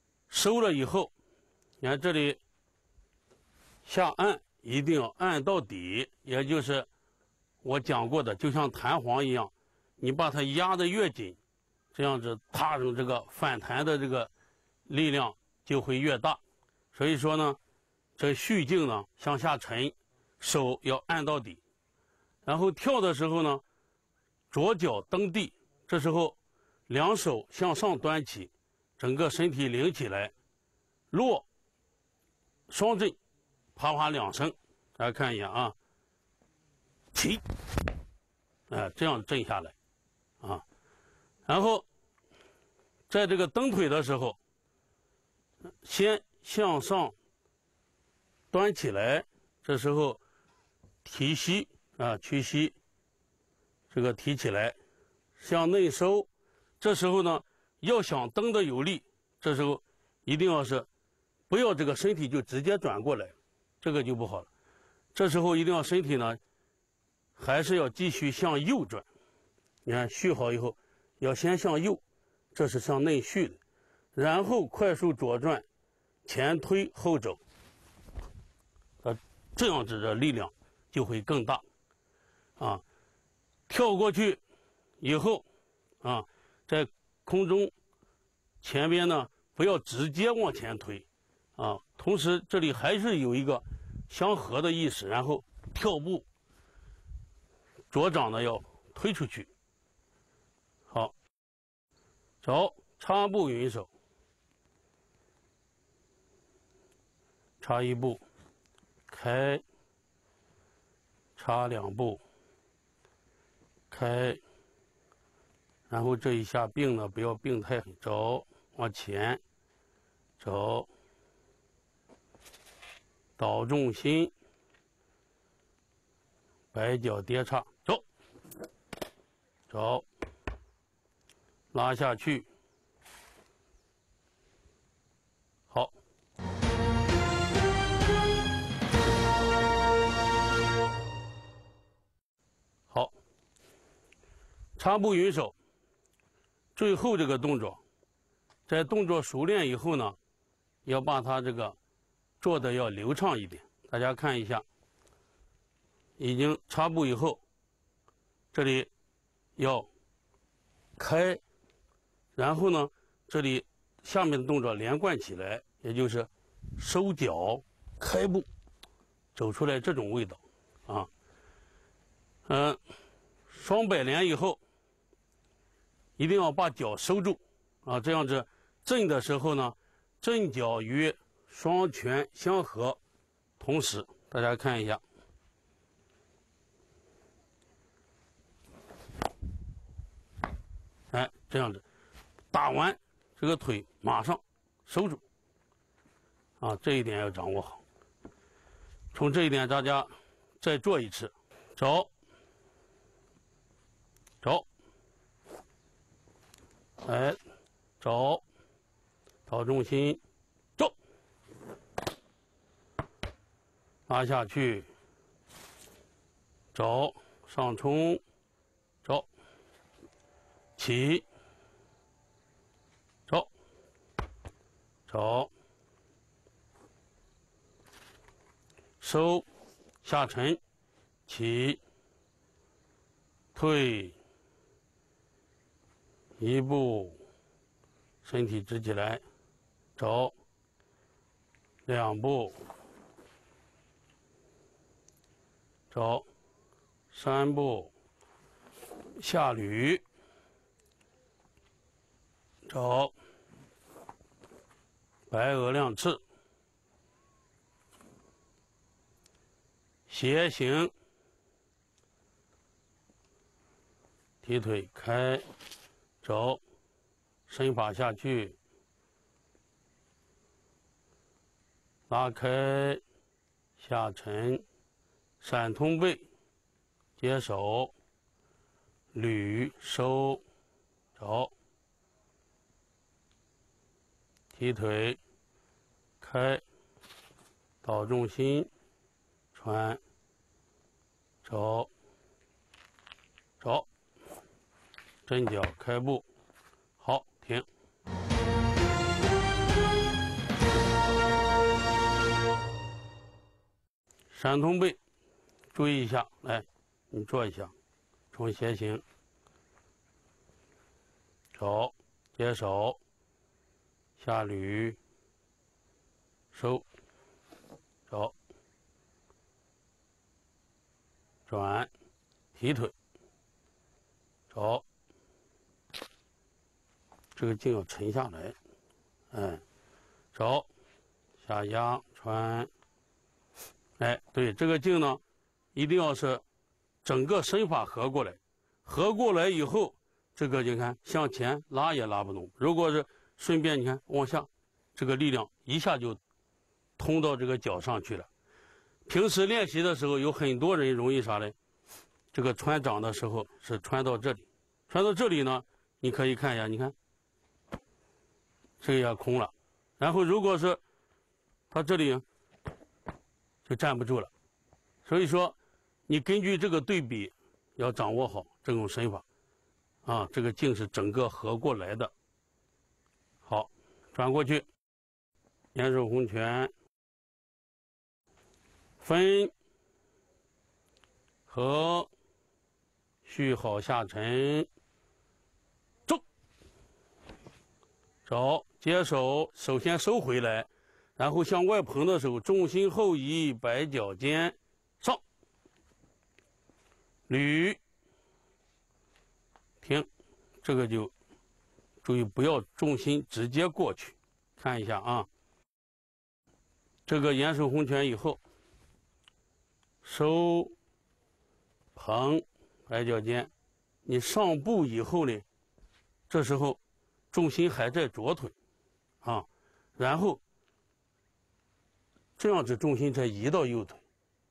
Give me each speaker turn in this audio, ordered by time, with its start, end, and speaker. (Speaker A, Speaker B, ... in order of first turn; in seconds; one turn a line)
Speaker A: 0.3-1.1
Speaker A: 1.8-2.4
Speaker A: 3.9-6.9
Speaker A: 7.6-11.4
Speaker A: 11.9-14.3
Speaker A: 14.9-16.4
Speaker A: 16.9-17.6
Speaker A: 18.2-21.6
Speaker A: 22.4-23.6
Speaker A: 24.5-26.4
Speaker A: 26.9-30.3
Speaker A: 31.1-31.4
Speaker A: 32.7-33.2
Speaker A: 33.8-35.8
Speaker A: 37.1-37.5
Speaker A: 38.7-39.8
Speaker A: 41.5-41.9
Speaker A: 43.1-44.4
Speaker A: 45.8-47.1
Speaker A: 48.5-50.2
Speaker A: 51.0-52.8
Speaker A: 53.9-54.8
Speaker A: 55.4-60.9
Speaker A: 61.5-64.5
Speaker A: 65.1-66.4
Speaker A: 67.4-69.1
Speaker A: 69.8-72.0
Speaker A: 72.5-73.6
Speaker A: 74.1-75.7
Speaker A: 76.2-77.4
Speaker A: 79.0-81.7
Speaker A: 82.6-82.8
Speaker A: 83.7-84.4
Speaker A: 85.0-85.5
Speaker A: 86.0-87.7
Speaker A: 88.6-96.3
Speaker A: 97.9-99.5
Speaker A: 100.9-101.1
Speaker A: 102.4-103.9
Speaker A: 107.6-108.2
Speaker A: 109.1-109.7
Speaker A: 111.4-112.2
Speaker A: 113.9-114.4
Speaker A: 115.9-119.4
Speaker A: 120.4-120.9
Speaker A: 123.4-124.3
Speaker A: 126.7-128.0
Speaker A: 129.7-130.1
Speaker A: 131.7-132.5
Speaker A: 135.7-135.9
Speaker A: 142.9-143.2
Speaker A: 144.8-145.6
Speaker A: 146.7-147.8
Speaker A: 148.7-150.2
Speaker A: 150.8-151.8
Speaker A: 152.4-154.7
Speaker A: 156.2-157.4
Speaker A: 158.5-158.9
Speaker A: 159.6-159.9
Speaker A: 161.0-161.4
Speaker A: 162.3-168.5
Speaker A: 169.3-171.1
Speaker A: 172.5-172.8
Speaker A: 173.5-174.6
Speaker A: 176.2-183.0
Speaker A: 183.6-185.0
Speaker A: 191.1-191.8
Speaker A: 192.5-195.2
Speaker A: 196.6-197.8
Speaker A: 199.1-202.1
Speaker A: 204.4-204.7
Speaker A: 207.0-207.4
Speaker A: 208.0-208.4
Speaker A: 209.5-210.2
Speaker A: 214.1-214.9
Speaker A: 216.7-218.2
Speaker A: 220.8-221.3
Speaker A: 225.1-225.5
Speaker A: 229.0-229.5
Speaker A: 230.0-230.6
Speaker A: 231.3-231.8
Speaker A: 233.5-234.2
Speaker A: 236.4-237.2
Speaker A: 238.2-239.2
Speaker A: 240.0-240.3
Speaker A: 241.9-242.6
Speaker A: 245.9-246.3
Speaker A: 247.1-247.9
Speaker A: 249.2-250.0
Speaker A: 252.7-253.1
Speaker A: 255.3-256.2
Speaker A: 260.1-260.9
Speaker A: 264.4-265.5
Speaker A: 266.2-266.6
Speaker A: 267.5-268.6
Speaker A: 272.1-273.0
Speaker A: 273.8-274.6
Speaker A: 275.4-276.3
Speaker A: 277.2-277.9
Speaker A: 279.1-280.4
Speaker A: 281.1-281.5
Speaker A: 284.5-285.2
Speaker A: 286.2-286.6
Speaker A: 287.8-288.7
Speaker A: 289.5-290.0
Speaker A: 291.4-291.9
Speaker A: 293.6-293.9
Speaker A: 295.2-296.2
Speaker A: 297.0-297.7
Speaker A: 304.3-305.0
Speaker A: 305.7-307.7
Speaker A: 308.3-309.0
Speaker A: 311.5-313.0
Speaker A: 314.2-315.0
Speaker A: 316.5-316.9
Speaker A: 318.1-318.3
Speaker A: 321.5-321.9
Speaker A: 322.5-322.9
Speaker A: 324.5-324.9
Speaker A: 327.3-328.6
Speaker A: 329.3-329.6
Speaker A: 330.3-330.7
Speaker A: 331.4-332.7
Speaker A: 334.0-335.2
Speaker A: 335.7-336.4
Speaker A: 337.0-346.2
Speaker A: 347.0-348.3
Speaker A: 349.1-351.6
Speaker A: 352.3-356.9
Speaker A: 358.8-360.8
Speaker A: 361.7-362.2
Speaker A: 363.6-364.3
Speaker A: 365.0-369.2
Speaker A: 370.0-372.1
Speaker A: 373.4-374.7
Speaker A: 375.7-376.7
Speaker A: 379.0-379.5
Speaker A: 381.5-382.1
Speaker A: 383.2-384.7
Speaker A: 388.2-395.2
Speaker A: 397.3-397.8
Speaker A: 399.8-400.1
Speaker A: 400.6-401.1
Speaker A: 402.0-405.3
Speaker A: 407.1-408.4
Speaker A: 410.0-410.8
Speaker A: 411.9-413.5
Speaker A: 414.1-415.4
Speaker A: 416.3-416.8
Speaker A: 417.3-418.6
Speaker A: 419.2-420.4
Speaker A: 422.4-424.0